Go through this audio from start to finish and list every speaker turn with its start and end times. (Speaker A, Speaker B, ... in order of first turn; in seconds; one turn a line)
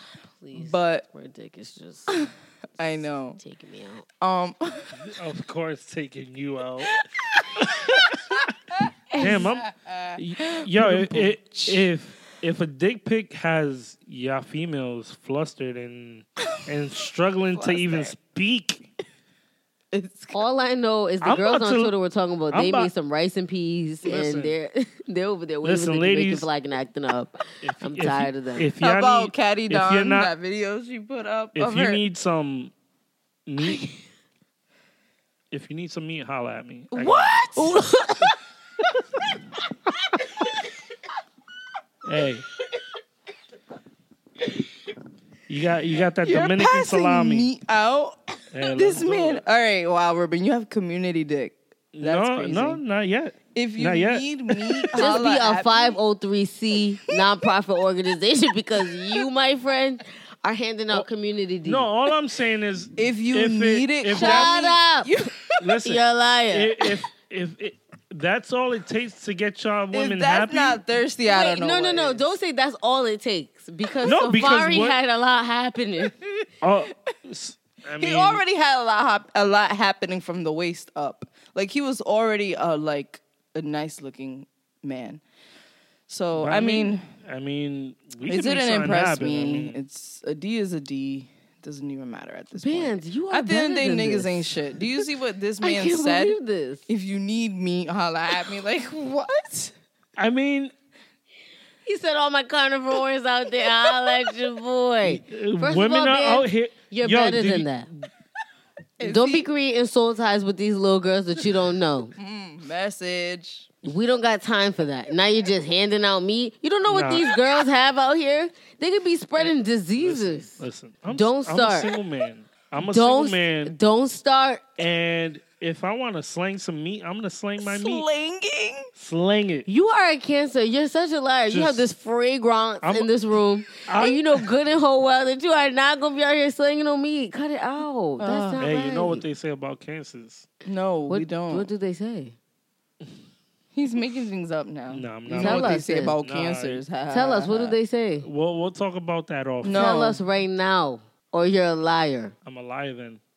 Speaker A: 0.4-2.2
Speaker B: 0.6-1.1
Speaker B: 2.1-3.4
Speaker A: 2.8-4.0
Speaker B: 4.2-5.1
Speaker C: 4.9-7.0
Speaker B: 6.9-8.5
Speaker C: 7.5-8.1
Speaker A: 9.1-9.4
Speaker B: 9.1-11.9
Speaker C: 9.1-18.9
Speaker B: 17.5-18.1
Speaker B: 19.9-20.4
Speaker A: 20.3-28.7
Speaker C: 21.2-21.9
Speaker C: 22.5-22.9
Speaker C: 24.0-24.5
Speaker C: 25.6-26.5
Speaker C: 27.6-30.3
Speaker B: 28.8-32.0
Speaker C: 31.6-32.7
Speaker C: 33.5-33.9
Speaker C: 35.5-37.3
Speaker B: 36.9-38.3
Speaker B: 40.1-40.5
Speaker C: 42.0-42.5
Speaker C: 45.5-47.5
Speaker B: 46.2-52.8
Speaker C: 48.5-49.4
Speaker C: 51.9-55.2
Speaker B: 53.5-56.0
Speaker A: 54.9-61.9
Speaker B: 58.8-59.2
Speaker C: 61.6-64.5
Speaker B: 63.0-65.7
Speaker A: 64.1-65.1
Speaker C: 65.6-70.8
Speaker A: 65.8-66.8
Speaker B: 69.9-72.3
Speaker A: 71.2-76.1
Speaker C: 74.0-75.0
Speaker C: 76.6-78.4
Speaker B: 78.0-85.2
Speaker B: 86.1-87.0
Speaker C: 86.3-89.8
Speaker B: 88.3-99.7
Speaker A: 92.6-95.1
Speaker A: 95.6-96.9
Speaker C: 100.2-100.7
Speaker A: 101.8-107.9
Speaker B: 103.6-104.3
Speaker C: 105.0-108.0
Speaker B: 109.0-109.5
Speaker A: 109.0-112.1
Speaker B: 112.2-113.7
Speaker A: 113.8-121.9
Speaker C: 116.9-117.3
Speaker C: 119.4-123.7
Speaker A: 122.8-124.6
Speaker C: 124.8-128.1
Speaker B: 127.6-128.9
Speaker C: 128.9-129.7
Speaker A: 129.7-139.2
Speaker C: 131.5-131.9
Speaker C: 132.8-133.1
Speaker C: 133.8-134.5
Speaker B: 138.2-138.7
Speaker C: 138.6-140.5
Speaker B: 140.6-141.7
Speaker A: 141.1-142.3
Speaker B: 143.7-147.8
Speaker C: 144.9-146.8
Speaker A: 145.3-146.2
Speaker A: 147.1-148.3
Speaker C: 148.2-149.9
Speaker B: 149.6-150.2
Speaker A: 149.7-152.3
Speaker C: 152.4-153.2